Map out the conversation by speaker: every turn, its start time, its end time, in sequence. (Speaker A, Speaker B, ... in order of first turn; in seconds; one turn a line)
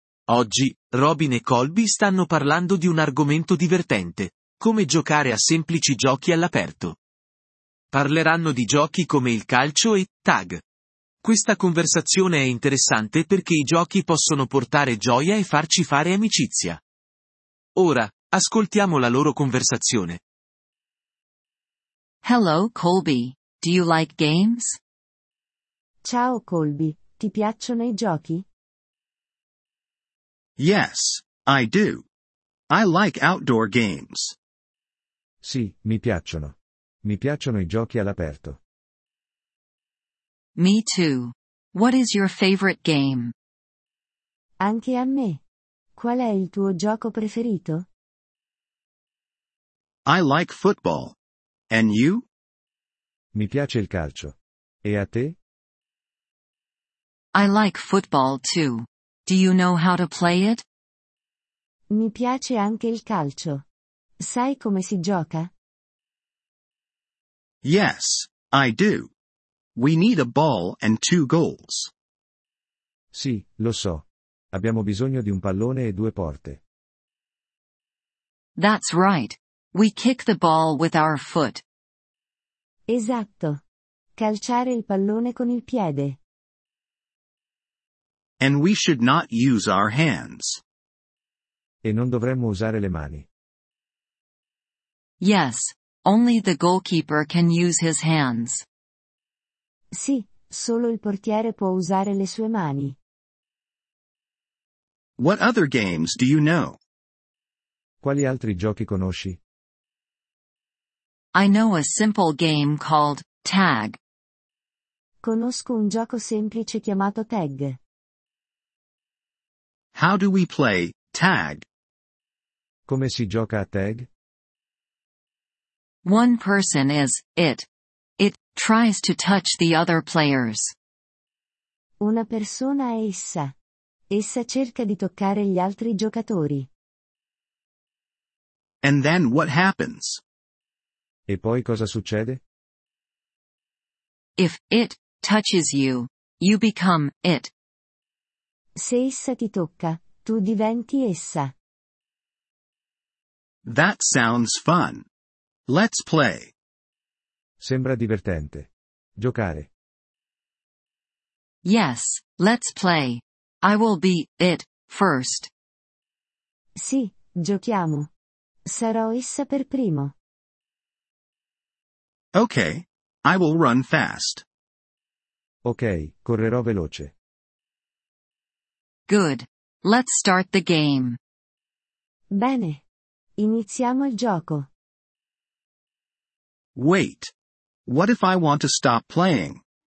Speaker A: 0.3-7.0
Speaker A: 7.9-10.6
Speaker A: 11.2-16.8
Speaker A: 17.8-20.2
Speaker B: 22.2-24.8
Speaker C: 26.0-28.4
Speaker D: 30.6-32.0
Speaker D: 32.7-34.3
Speaker E: 35.4-38.6
Speaker B: 40.5-43.3
Speaker C: 44.6-45.4
Speaker C: 46.0-47.9
Speaker D: 50.0-51.1
Speaker D: 51.7-52.2
Speaker E: 53.3-55.4
Speaker B: 57.3-60.6
Speaker C: 61.9-63.6
Speaker C: 64.2-65.5
Speaker D: 67.6-69.1
Speaker D: 69.8-71.9
Speaker E: 73.1-76.6
Speaker B: 78.5-81.6
Speaker C: 82.9-83.6
Speaker C: 84.2-86.2
Speaker D: 88.4-90.6
Speaker E: 91.8-93.3
Speaker B: 95.2-98.6
Speaker C: 99.9-103.0
Speaker D: 105.2-106.8
Speaker E: 108.0-109.4
Speaker B: 111.3-114.0
Speaker C: 115.2-117.8
Speaker D: 119.9-121.6
Speaker E: 122.9-124.1
Speaker B: 126.0-127.7
Speaker B: 128.2-130.7
Speaker C: 132.0-133.5
Speaker C: 134.1-136.7
Speaker D: 138.8-140.2
Speaker E: 141.3-142.4
Speaker B: 144.4-147.5
Speaker C: 148.8-151.5
Speaker D: 153.6-155.0
Speaker D: 155.7-156.5
Speaker E: 157.6-159.7
Speaker B: 161.6-165.5
Speaker C: 166.8-168.1
Speaker C: 168.7-170.1
Speaker D: 172.3-174.4
Speaker E: 175.6-177.1
Speaker B: 179.1-181.2
Speaker C: 182.3-182.8
Speaker C: 183.4-184.7
Speaker D: 186.8-187.3
Speaker D: 187.8-189.6